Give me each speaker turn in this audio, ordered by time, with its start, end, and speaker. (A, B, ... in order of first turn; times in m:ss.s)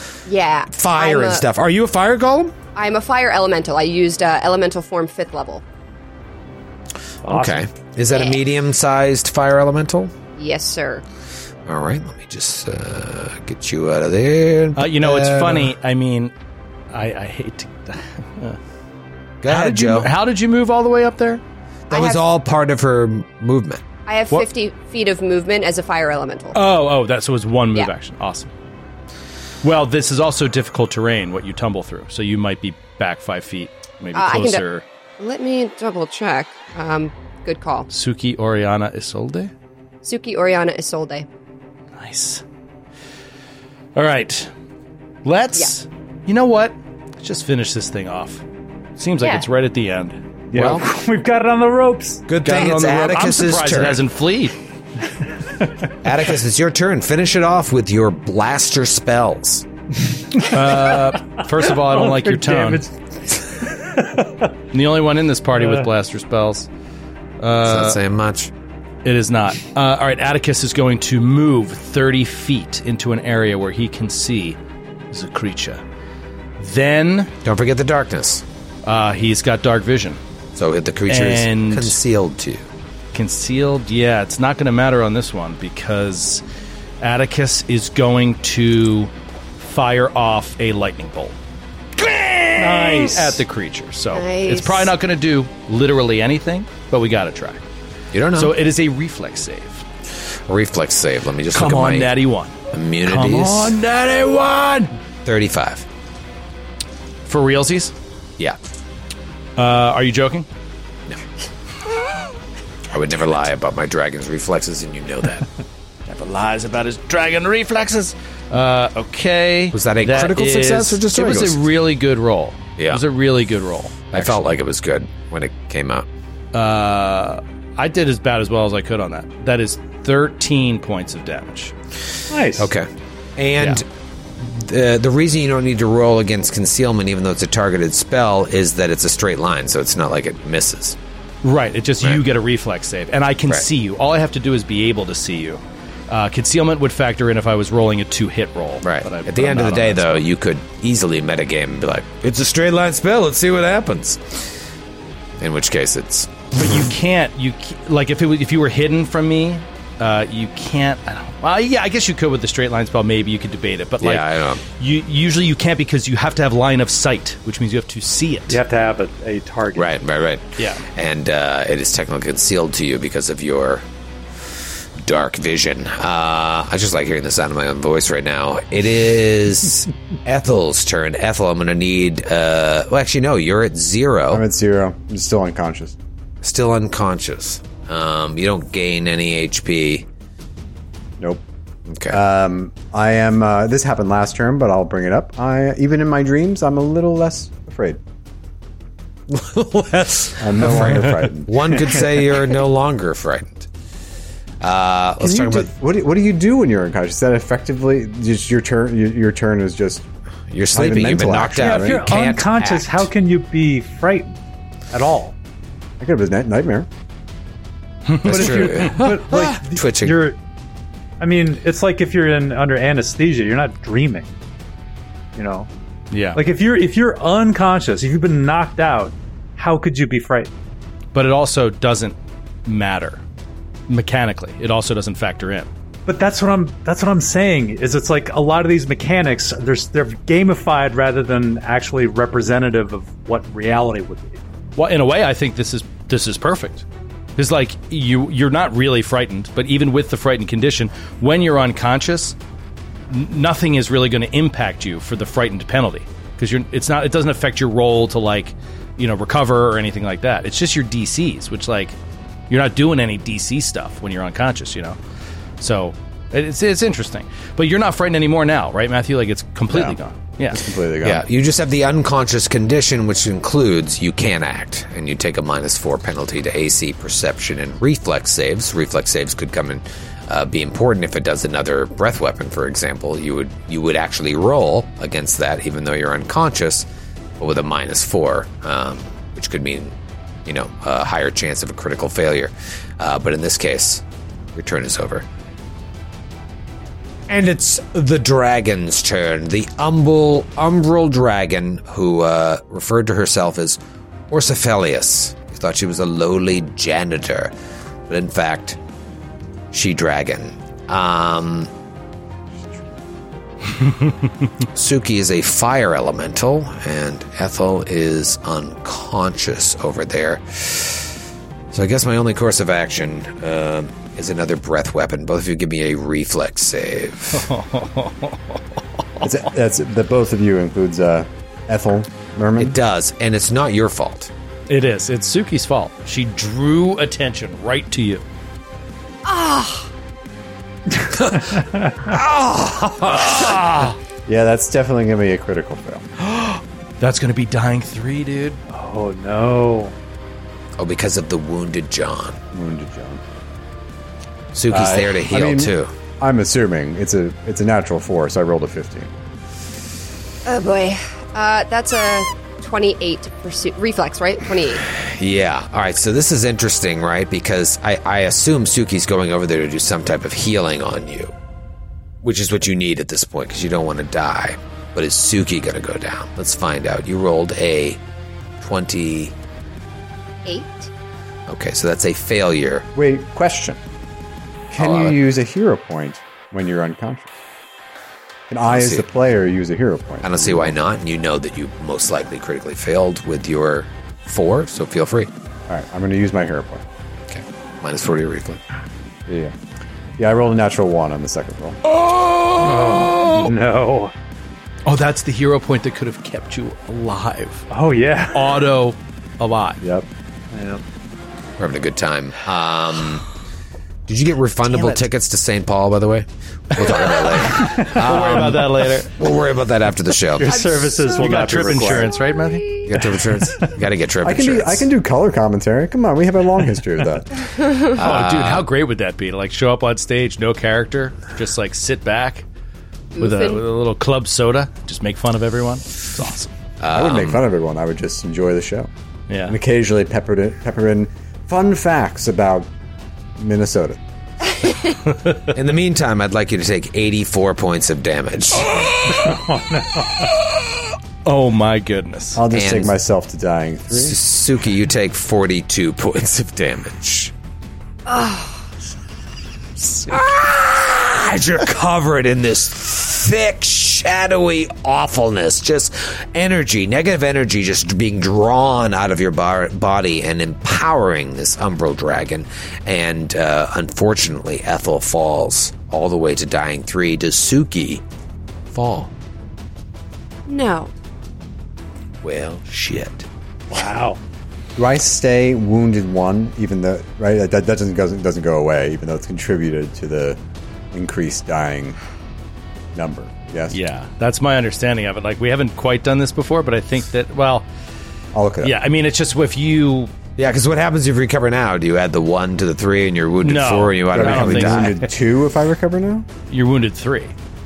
0:00.3-0:01.5 A
0:00.7-0:02.6 B
0:02.8-0:05.6 A
0:07.2-0:07.7 C
0:07.2-0:10.1 B
0:08.1-0:08.4 A
0:10.4-0:11.0 A
0:11.7-0:15.7 B
0:14.8-0:16.3 D
0:16.9-0:18.6 D
0:19.4-0:20.1 B
0:19.5-0:21.4 D
0:21.9-0:22.2 A
0:21.9-0:23.9 B
0:24.1-0:26.6 A
0:26.5-0:28.5 D
0:29.6-0:34.8 D
0:34.1-0:34.6 A
0:35.2-0:37.9 A
0:37.9-0:39.5 D
0:40.0-0:41.3 A
0:42.0-0:42.4 D
0:44.0-0:44.5 D
0:45.2-0:48.4 D
0:49.0-0:50.2 D
0:50.5-0:52.2 C
0:50.5-0:50.9 B
0:52.3-0:54.0 B
0:52.4-0:54.6 D
0:56.0-0:59.7 B
1:00.5-1:02.9 D
1:01.4-1:02.9 C
1:03.7-1:04.5 C
1:04.7-1:06.7 D
1:05.6-1:05.9 C
1:07.4-1:08.0 D
1:07.6-1:08.5 B
1:09.0-1:14.6 D
1:15.1-1:15.8 D
1:16.6-1:17.3 D
1:17.4-1:18.4 B
1:18.8-1:20.2 D
1:20.6-1:22.6 B
1:21.1-1:22.0 D
1:23.1-1:26.4 D
1:27.0-1:31.4 D
1:32.0-1:37.6 D
1:32.6-1:33.4 C
1:34.1-1:34.9 A
1:38.1-1:38.5 B
1:38.3-1:39.8 D
1:40.5-1:42.1 B
1:41.5-1:44.9 D
1:42.7-1:43.8 B
1:45.2-1:45.9 B
1:47.3-1:47.9 D
1:49.6-1:50.5 D
1:52.9-1:55.5 B
1:56.1-2:04.4 D
1:59.7-2:01.6 B
2:04.1-2:06.1 B
2:06.5-2:11.7 D
2:12.3-2:12.7 C
2:12.6-2:13.8 B
2:14.4-2:21.0 B
2:21.4-2:30.3 D
2:28.8-2:34.5 B
2:35.4-2:36.8 B
2:36.5-2:48.6 D
2:44.0-2:44.6 B
2:48.5-2:49.9 C
2:49.8-2:53.8 B
2:50.6-2:50.8 D
2:55.0-3:04.4 B
3:04.3-3:06.0 E
3:06.4-3:10.1 B
3:11.9-3:12.2 B
3:12.1-3:18.0 E
3:19.3-3:23.7 B
3:20.4-3:22.0 E
3:24.6-3:25.7 B
3:25.2-3:30.0 E
3:30.5-3:33.1 B
3:30.7-3:32.0 E
3:31.6-3:34.4 C
3:34.9-3:35.3 C
3:36.0-3:36.9 E
3:38.1-3:39.1 D
3:38.2-3:40.3 B
3:38.2-3:40.4 C
3:41.2-3:44.3 C
3:45.4-3:45.7 C
3:46.1-3:46.4 D
3:46.3-3:50.5 C
3:51.1-3:53.2 D
3:53.9-3:55.7 D
3:56.1-4:04.4 C
4:04.8-4:06.8 D
4:07.4-4:12.4 D
4:13.1-4:22.0 D
4:22.5-4:25.0 D
4:25.6-4:30.6 D
4:30.5-4:31.2 E
4:31.0-4:46.9 B
4:47.4-4:54.0 B
4:54.6-4:55.2 B
4:57.3-5:07.5 B
5:08.1-5:08.8 B
5:09.7-5:11.7 B
5:14.7-5:21.1 B
5:21.7-5:27.5 B
5:27.3-5:28.6 D
5:29.2-5:32.8 E
5:32.6-5:34.3 B
5:34.7-5:38.2 D
5:39.2-5:39.9 A
5:41.1-5:43.6 B
5:41.5-5:41.9 C
5:43.1-5:44.0 D
5:44.3-5:46.0 E
5:46.2-5:48.6 D
5:48.7-5:50.0 C
5:50.8-5:52.4 B
5:52.5-5:53.2 E
5:54.5-5:55.9 B
5:54.7-5:59.1 E
6:00.5-6:04.8 A
6:04.9-6:11.3 B
6:12.2-6:18.0 B
6:18.6-6:19.3 B
6:20.4-6:20.9 A
6:21.5-6:22.9 B
6:23.0-6:23.8 E
6:24.7-6:27.3 E
6:24.8-6:25.2 B
6:28.5-6:30.8 E
6:28.7-6:29.0 B
6:30.2-6:35.3 B
6:35.7-6:36.8 E
6:37.3-6:38.6 B
6:39.3-6:39.5 E
6:40.2-6:41.8 E
6:41.9-6:43.5 D
6:42.8-6:44.1 C
6:44.9-6:47.7 D
6:47.7-6:48.6 C
6:48.3-6:49.8 D
6:49.8-6:50.1 E
6:50.5-6:50.8 C
6:51.6-6:53.2 B
6:54.1-7:00.9 B
6:57.1-6:59.1 D
7:00.4-7:02.2 C
7:01.1-7:02.8 D
7:02.2-7:02.9 A
7:02.9-7:04.9 B
7:04.2-7:07.3 E
7:07.6-7:07.9 A
7:07.9-7:08.7 B
7:07.9-7:12.4 D
7:13.2-7:13.6 A
7:13.2-7:16.5 D
7:16.8-7:17.4 B
7:16.9-7:18.9 E
7:19.3-7:19.6 D
7:19.5-7:22.7 E
7:23.4-7:24.0 E
7:25.5-7:29.4 B
7:29.1-7:30.2 C
7:31.2-7:32.4 D
7:32.4-7:34.2 E
7:32.5-7:33.0 B
7:33.9-7:37.3 B
7:38.1-7:38.5 A
7:40.1-7:58.0 B
7:58.7-7:59.1 B
8:00.5-8:00.9 A
8:02.2-8:03.3 B
8:03.7-8:04.2 C
8:04.8-8:10.4 E
8:10.9-8:12.0 E
8:13.0-8:13.8 E
8:13.7-8:17.7 D
8:18.3-8:18.8 E
8:18.6-8:20.1 D
8:20.4-8:25.0 B
8:23.4-8:25.0 D
8:24.1-8:26.3 E
8:26.5-8:27.3 D